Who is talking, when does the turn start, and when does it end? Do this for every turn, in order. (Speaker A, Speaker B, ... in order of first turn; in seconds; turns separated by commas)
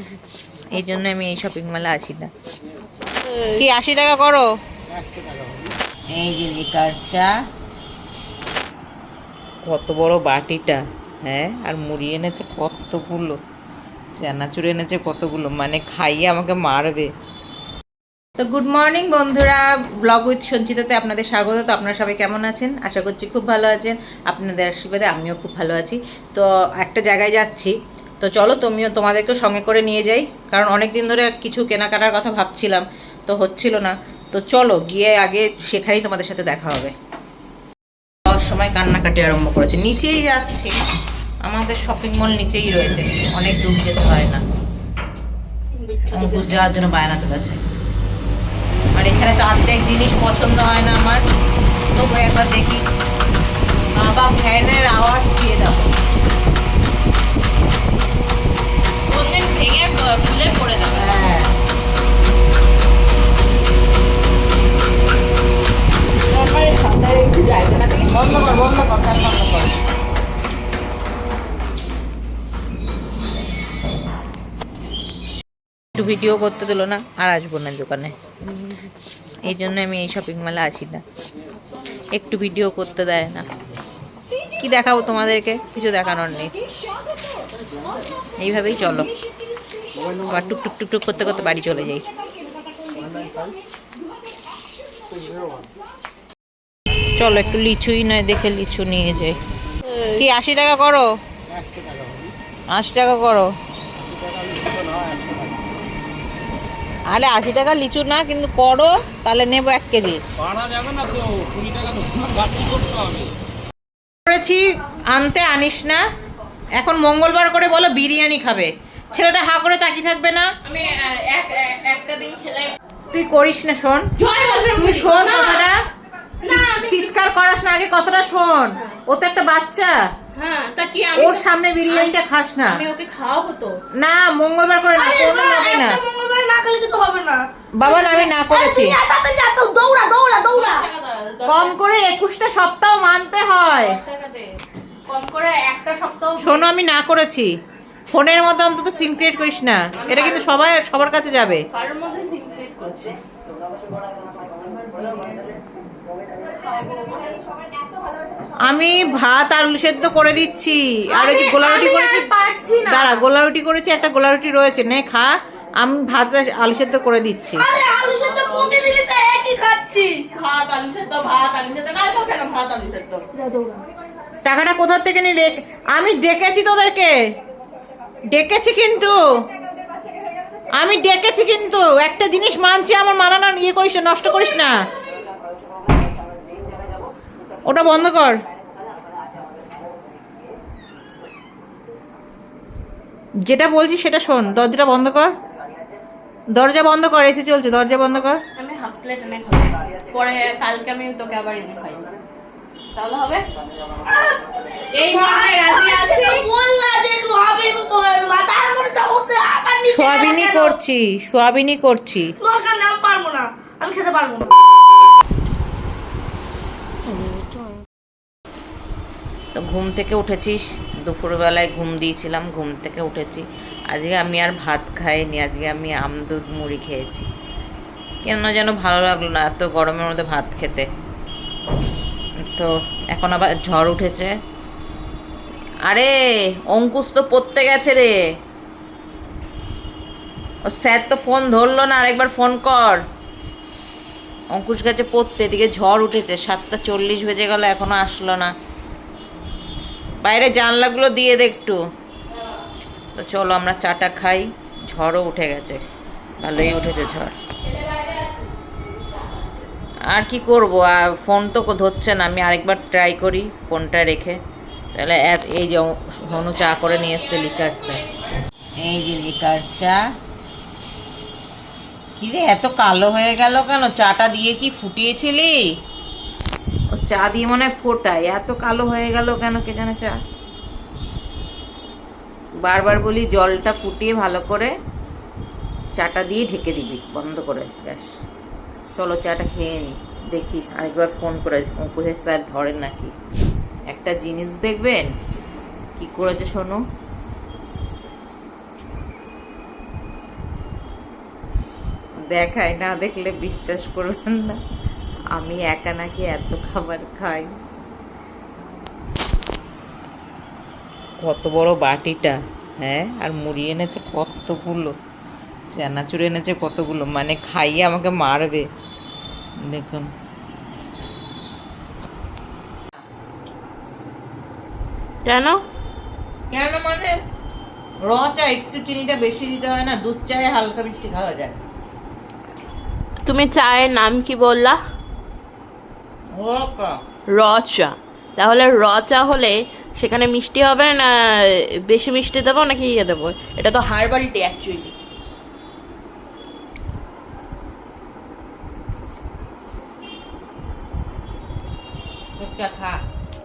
Speaker A: 0.7-2.3, Speaker B: 3.2-3.6, Speaker A: 3.6-4.5, Speaker C: 5.0-5.7, Speaker A: 6.2-7.3, Speaker A: 9.7-13.4, Speaker A: 14.2-17.1, Speaker A: 18.4-36.9, Speaker A: 38.3-40.7, Speaker A: 41.4-44.4, Speaker B: 45.7-46.6, Speaker A: 46.1-47.6, Speaker A: 49.0-51.2, Speaker A: 52.0-52.8, Speaker A: 54.0-55.9, Speaker B: 59.1-61.3, Speaker A: 61.0-61.5, Speaker B: 66.3-69.7, Speaker A: 76.0-78.1, Speaker A: 79.5-81.0, Speaker A: 82.2-83.5, Speaker A: 84.6-86.5, Speaker A: 88.4-89.1, Speaker A: 90.3-92.0, Speaker A: 97.2-99.3, Speaker B: 99.9-100.2, Speaker A: 100.2-101.1, Speaker C: 101.5-102.3, Speaker A: 102.7-103.5, Speaker C: 104.1-105.3, Speaker A: 107.1-110.2, Speaker C: 110.5-113.3, Speaker A: 114.3-116.0, Speaker A: 116.8-120.5, Speaker B: 120.7-122.7, Speaker A: 123.1-124.0, Speaker B: 124.2-125.7, Speaker A: 124.7-125.8, Speaker B: 126.4-127.1, Speaker A: 126.5-129.9, Speaker B: 130.3-133.8, Speaker A: 131.2-132.8, Speaker A: 134.0-136.0, Speaker D: 134.9-140.9, Speaker A: 137.8-139.0, Speaker B: 137.9-138.4, Speaker B: 140.5-141.8, Speaker A: 141.5-144.0, Speaker B: 143.8-144.5, Speaker B: 145.1-146.7, Speaker A: 146.4-147.5, Speaker A: 148.1-151.6, Speaker B: 150.0-150.7, Speaker B: 151.7-153.2, Speaker B: 154.8-155.6, Speaker B: 156.4-157.4, Speaker A: 158.7-162.3, Speaker B: 161.1-163.2, Speaker A: 162.8-165.3, Speaker A: 165.8-167.7, Speaker D: 167.6-170.2, Speaker B: 168.4-168.8, Speaker B: 170.3-173.3, Speaker A: 174.4-177.1, Speaker A: 178.3-179.2, Speaker A: 180.8-184.7, Speaker A: 187.7-188.4, Speaker A: 193.5-195.3, Speaker A: 196.6-198.4, Speaker B: 198.6-202.1, Speaker B: 202.9-203.4, Speaker D: 204.1-210.8, Speaker B: 204.9-206.5, Speaker A: 209.9-212.3, Speaker D: 212.4-214.6, Speaker A: 219.5-227.3, Speaker A: 228.2-230.9, Speaker A: 232.4-234.3, Speaker A: 235.9-236.1, Speaker A: 236.7-238.1, Speaker A: 240.7-243.0, Speaker A: 244.5-248.5, Speaker A: 250.2-251.8, Speaker A: 253.2-255.8, Speaker A: 256.4-257.4, Speaker B: 257.6-259.6, Speaker A: 260.1-264.4, Speaker A: 264.9-268.0, Speaker B: 266.3-268.4, Speaker A: 268.8-270.0, Speaker A: 272.2-275.6, Speaker A: 276.9-280.2, Speaker A: 282.6-284.7, Speaker A: 286.0-288.1, Speaker A: 289.0-293.1, Speaker A: 293.9-295.1, Speaker A: 296.0-296.8, Speaker A: 302.3-304.6, Speaker A: 305.4-307.5, Speaker A: 311.2-314.9, Speaker A: 315.7-318.7, Speaker A: 319.7-320.1, Speaker B: 325.2-325.6, Speaker A: 326.5-327.2, Speaker A: 328.1-331.6, Speaker B: 333.2-334.8, Speaker A: 336.4-337.0, Speaker B: 337.3-344.9, Speaker A: 352.4-353.0